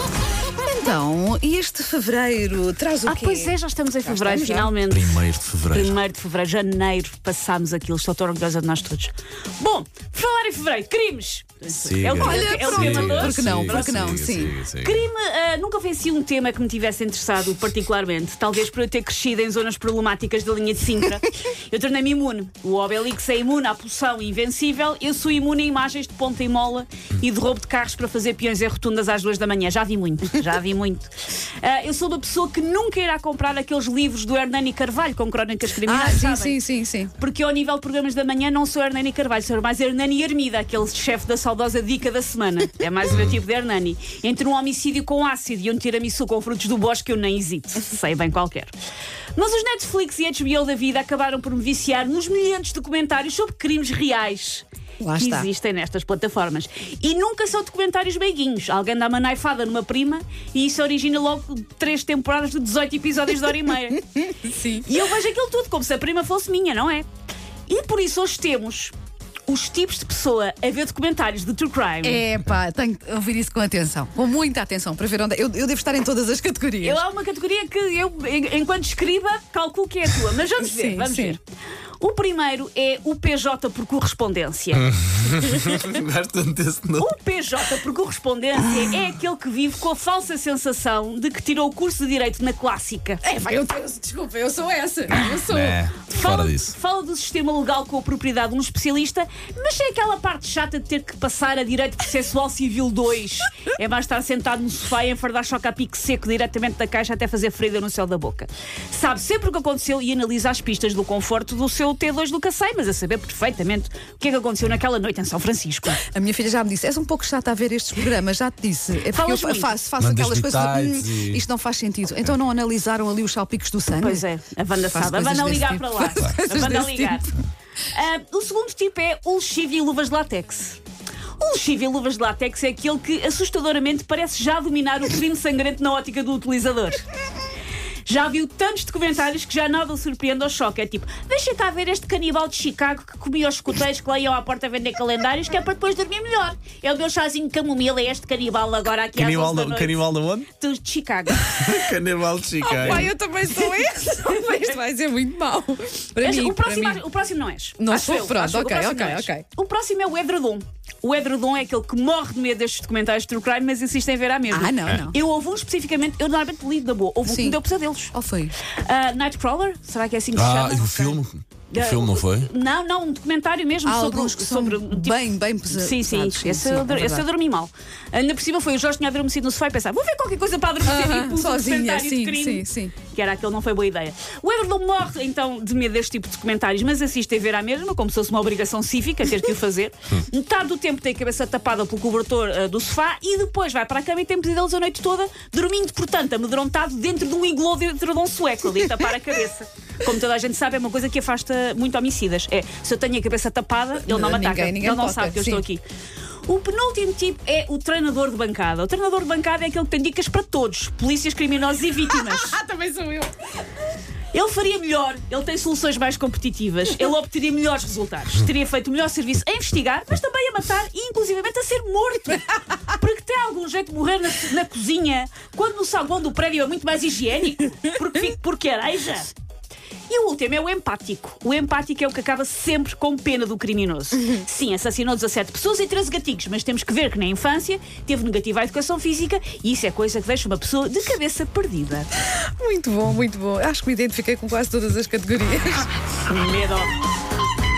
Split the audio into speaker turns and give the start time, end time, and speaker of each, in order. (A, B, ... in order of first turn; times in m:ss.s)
0:00.6-0:04.7 A
0:03.0-0:36.6 B
0:04.9-0:05.9 C
0:11.8-0:15.0 C
0:12.2-0:14.6 A
0:35.8-0:37.1 A
0:37.2-0:48.7 B
0:49.4-1:04.0 B
0:55.0-0:55.5 A
1:03.9-1:04.9 A
1:04.8-1:07.1 B
1:07.7-1:08.9 B
1:09.5-1:12.2 B
1:12.0-1:17.0 A
1:16.8-1:21.4 B
1:20.6-1:21.4 A
1:22.0-1:24.9 B
1:25.0-1:27.1 C
1:27.0-1:33.2 B
1:33.2-1:35.8 A
1:35.5-1:36.7 C
1:36.0-1:56.0 B
1:56.0-2:04.2 A
1:59.1-1:59.7 B
2:00.0-2:01.4 C
2:04.0-2:07.3 B
2:04.8-2:07.3 A
2:07.9-2:10.8 B
2:11.4-2:17.0 B
2:18.0-2:31.7 B
2:29.2-2:30.5 C
2:31.5-2:33.1 C
2:32.6-2:37.0 A
2:32.6-2:33.1 B
2:36.2-2:48.1 B
2:37.8-2:39.4 A
2:44.5-2:45.2 A
2:47.2-2:47.6 A
2:48.1-2:48.5 A
2:48.7-2:51.2 B
2:50.3-2:52.5 C
2:51.7-3:25.8 B
2:53.8-2:57.3 A
3:00.8-3:03.0 A
3:24.0-3:25.6 A
3:26.5-3:32.6 B
3:32.1-3:33.4 A
3:34.3-3:49.3 B
3:50.1-4:02.1 B
4:02.6-4:05.9 A
4:06.2-4:06.9 B